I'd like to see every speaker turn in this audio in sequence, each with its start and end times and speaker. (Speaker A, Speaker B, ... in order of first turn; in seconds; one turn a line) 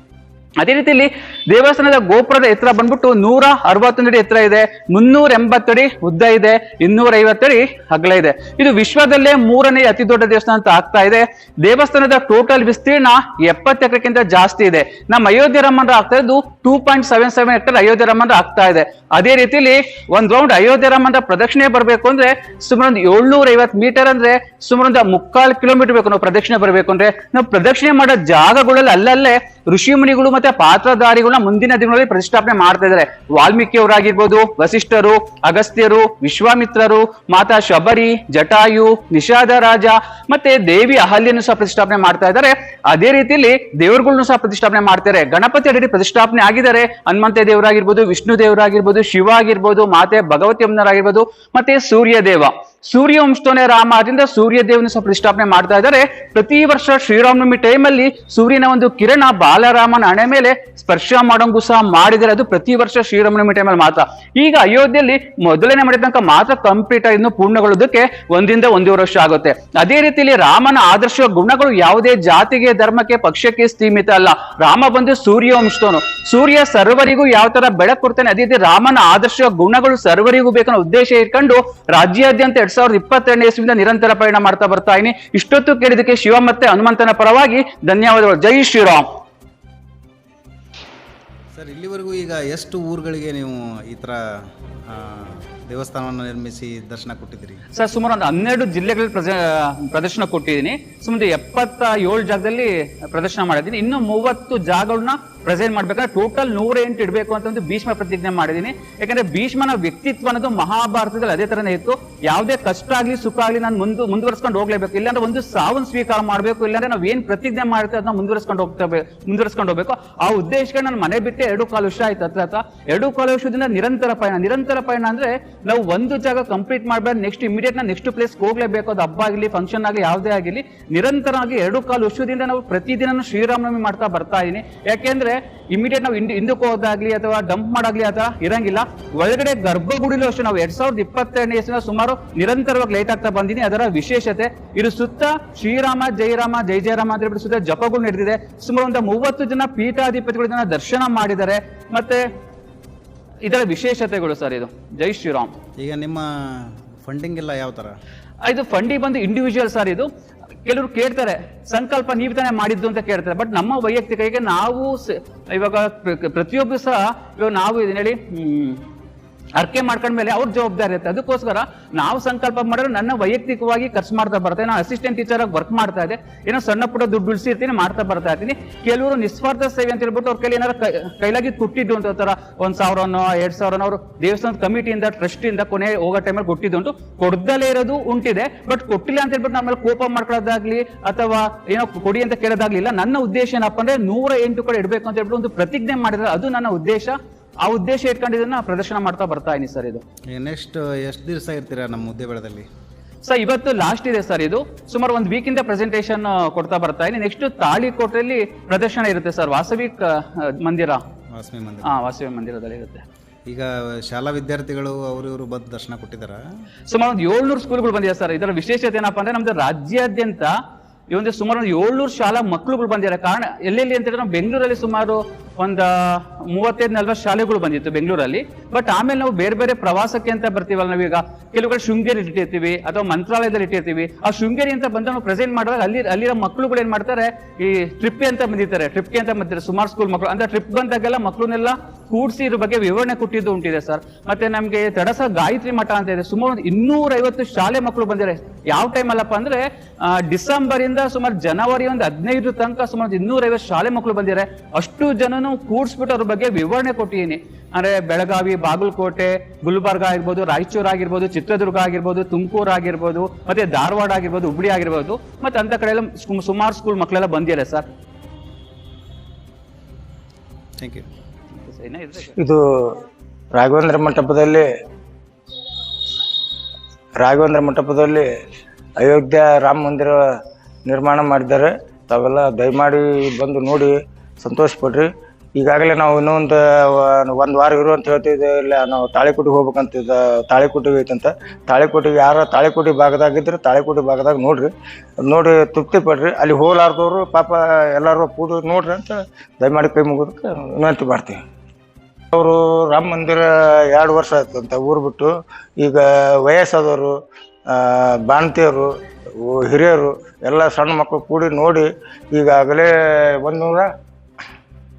Speaker A: 0.6-89.1
Speaker B: 91.5-94.2
Speaker B: 94.9-97.6
Speaker A: 97.8-152.2
Speaker A: 153.4-155.5
Speaker B: 155.8-157.9
Speaker A: 158.5-160.1
Speaker A: 160.7-168.8
Speaker A: 169.6-200.0
Speaker B: 200.3-202.7
Speaker A: 203.2-211.0
Speaker B: 211.3-211.9
Speaker A: 211.8-213.0
Speaker B: 213.5-216.4
Speaker A: 216.9-220.5
Speaker A: 221.1-267.9
Speaker B: 270.8-271.1
Speaker A: 271.6-272.4
Speaker C: 273.6-274.6
Speaker C: 277.2-278.2
Speaker C: 279.0-280.2
Speaker C: 280.9-294.7
Speaker C: 295.3-301.4
Speaker C: 302.4-307.1
Speaker C: 307.7-308.9
Speaker C: 309.4-312.9
Speaker C: 313.4-313.9